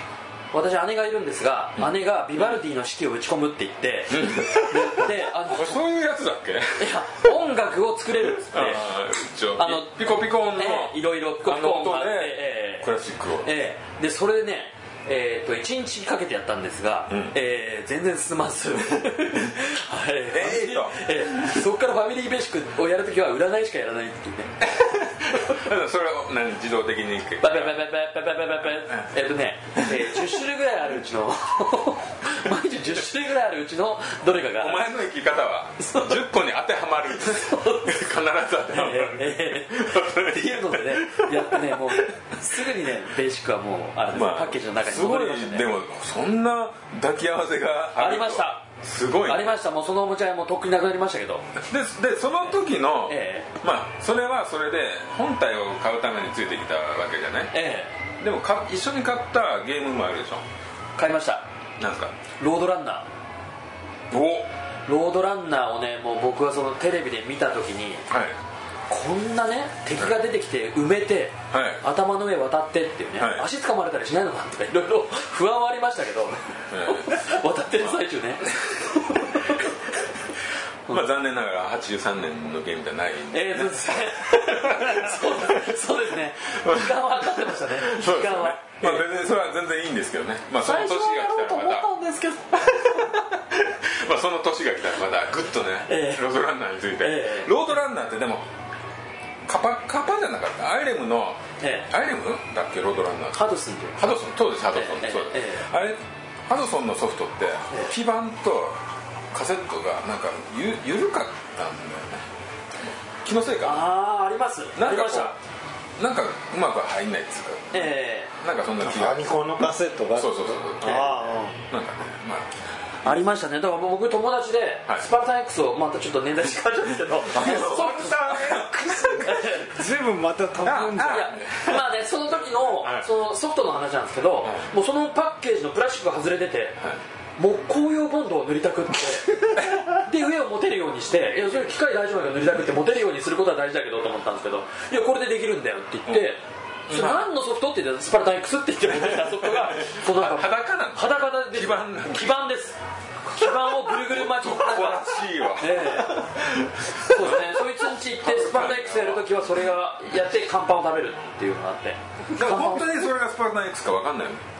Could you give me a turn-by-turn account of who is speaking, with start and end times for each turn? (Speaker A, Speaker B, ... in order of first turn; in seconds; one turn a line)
Speaker A: 0.5-5.8
Speaker B: 4.1-7.2
Speaker A: 6.8-8.8
Speaker B: 8.3-13.5
Speaker A: 9.6-12.9
Speaker A: 13.4-24.5
Speaker B: 17.1-17.3
Speaker B: 20.3-21.1
Speaker B: 24.6-27.8
Speaker A: 27.4-34.8
Speaker B: 28.8-29.1
Speaker B: 29.8-30.3
Speaker B: 34.6-42.6
Speaker A: 35.8-36.2
Speaker A: 37.5-37.9
Speaker A: 38.7-45.7
Speaker B: 44.1-49.5
Speaker A: 48.0-48.6
Speaker A: 49.2-51.5
Speaker B: 51.6-57.5
Speaker A: 53.1-53.5
Speaker A: 57.5-57.9
Speaker B: 58.2-60.4
Speaker A: 61.0-61.5
Speaker B: 61.8-62.1
Speaker A: 62.4-63.1
Speaker B: 64.1-64.5
Speaker A: 64.8-68.0
Speaker B: 68.1-68.3
Speaker A: 68.9-79.7
Speaker B: 71.5-71.8
Speaker B: 73.2-73.4
Speaker B: 76.7-79.6
Speaker B: 80.9-85.9
Speaker A: 83.3-89.0
Speaker B: 86.4-91.9
Speaker A: 90.6-93.2
Speaker B: 92.5-98.4
Speaker A: 95.9-96.2
Speaker A: 97.0-97.5
Speaker B: 99.5-103.4
Speaker A: 101.6-101.9
Speaker A: 103.3-104.0
Speaker B: 104.0-108.8
Speaker A: 104.7-105.7
Speaker B: 109.3-112.2
Speaker B: 112.8-113.9
Speaker A: 113.6-115.3
Speaker B: 114.8-115.3
Speaker B: 116.0-119.3
Speaker A: 117.7-118.3
Speaker C: 118.8-121.6
Speaker B: 120.1-123.2
Speaker A: 120.8-121.4
Speaker A: 123.0-129.8
Speaker B: 127.3-129.4
Speaker C: 127.4-131.3
Speaker B: 130.6-131.8
Speaker A: 131.0-136.8
Speaker B: 132.8-133.1
Speaker A: 137.4-152.8
Speaker B: 146.9-147.3
Speaker B: 148.9-152.4
Speaker A: 153.3-156.3
Speaker B: 153.4-159.4
Speaker A: 156.9-163.0
Speaker B: 162.3-164.4